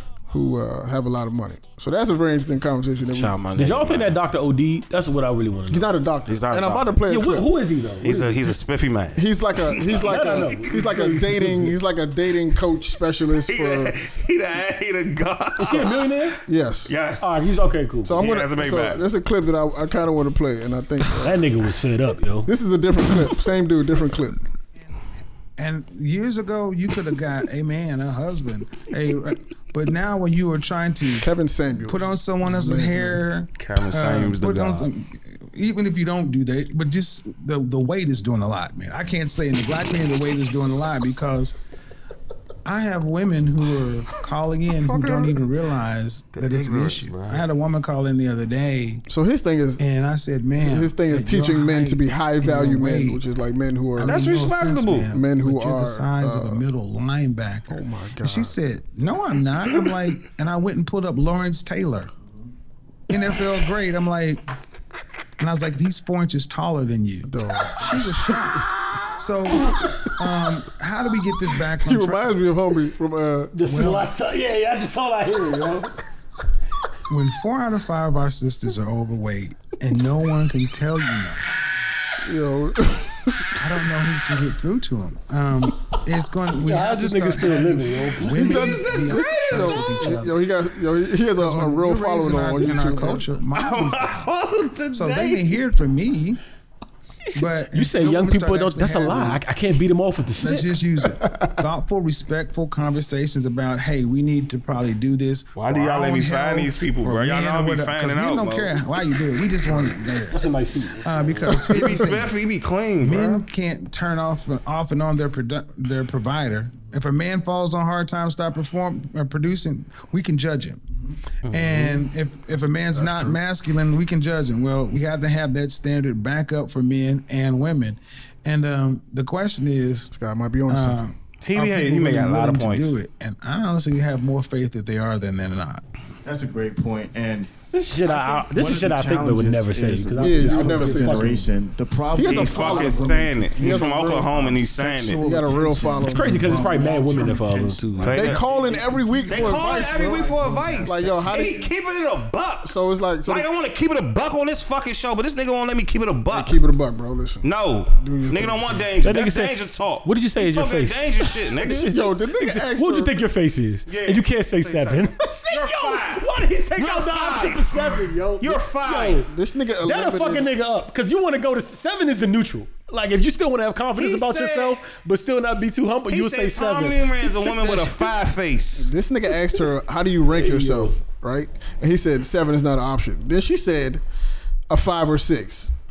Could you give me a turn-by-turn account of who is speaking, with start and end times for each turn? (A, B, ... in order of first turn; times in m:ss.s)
0:00.3-0:03.4 A
0:03.1-0:04.1 B
0:03.6-0:05.9 C
0:05.7-0:07.5 A
0:06.3-0:07.0 B
0:07.1-0:08.3 C
0:08.0-0:10.1 B
0:09.1-0:14.0 A
0:10.0-0:11.7 C
0:13.5-0:16.1 B
0:15.6-0:16.4 C
0:16.4-0:16.9 A
0:16.9-0:17.5 B
0:17.2-0:18.2 C
0:18.0-0:21.4 A
0:18.1-0:19.0 B
0:21.2-0:22.5 C
0:22.4-0:24.4 A
0:25.6-0:31.3 D
0:31.2-0:33.2 A
0:31.8-0:41.6 D
0:33.5-0:34.9 B
0:42.6-0:49.0 D
0:44.7-0:45.4 B
0:46.3-0:47.4 B
0:49.1-0:49.8 A
0:49.8-0:53.2 D
0:50.6-0:54.2 A
0:54.0-1:02.1 D
0:54.0-0:55.1 B
0:55.1-0:56.6 A
0:57.7-0:58.5 A
1:03.1-1:04.4 D
1:05.4-1:12.3 D
1:07.2-1:08.6 A
1:11.8-1:13.6 A
1:13.5-1:16.0 C
1:13.6-1:14.1 D
1:17.1-1:21.4 D
1:22.2-1:23.4 A
1:23.6-1:30.4 D
1:26.6-1:28.8 C
1:28.3-1:33.3 A
1:28.5-1:29.8 B
1:31.4-1:36.4 D
1:33.5-1:35.6 B
1:37.2-1:40.7 C
1:37.3-1:39.4 D
1:40.4-1:50.4 D
1:45.5-1:48.8 B
1:50.3-1:51.5 C
1:51.0-1:52.4 D
1:51.5-1:53.4 B
1:53.0-2:00.8 D
2:01.4-2:10.1 D
2:01.5-2:02.0 B
2:10.1-2:11.0 A
2:10.7-2:15.8 D
2:11.4-2:13.0 B
2:16.2-2:31.2 E
2:17.7-2:21.4 C
2:20.2-2:21.3 A
2:22.1-2:24.5 A
2:22.2-2:25.3 B
2:24.3-2:25.9 D
2:25.1-2:26.7 A
2:26.1-2:28.3 C
2:28.0-2:28.4 B
2:28.1-2:31.7 A
2:29.3-2:32.7 B
2:32.6-2:33.5 A
2:33.2-2:36.6 B
2:36.3-2:38.8 A
2:37.4-2:41.9 B
2:39.0-2:49.3 C
2:41.6-2:43.2 A
2:43.9-2:49.2 B
2:49.2-2:50.5 A
2:49.8-2:58.1 C
2:53.9-2:54.8 B
2:56.1-2:58.9 B
2:58.8-3:04.0 A
3:00.3-3:01.0 C
3:04.7-3:05.7 A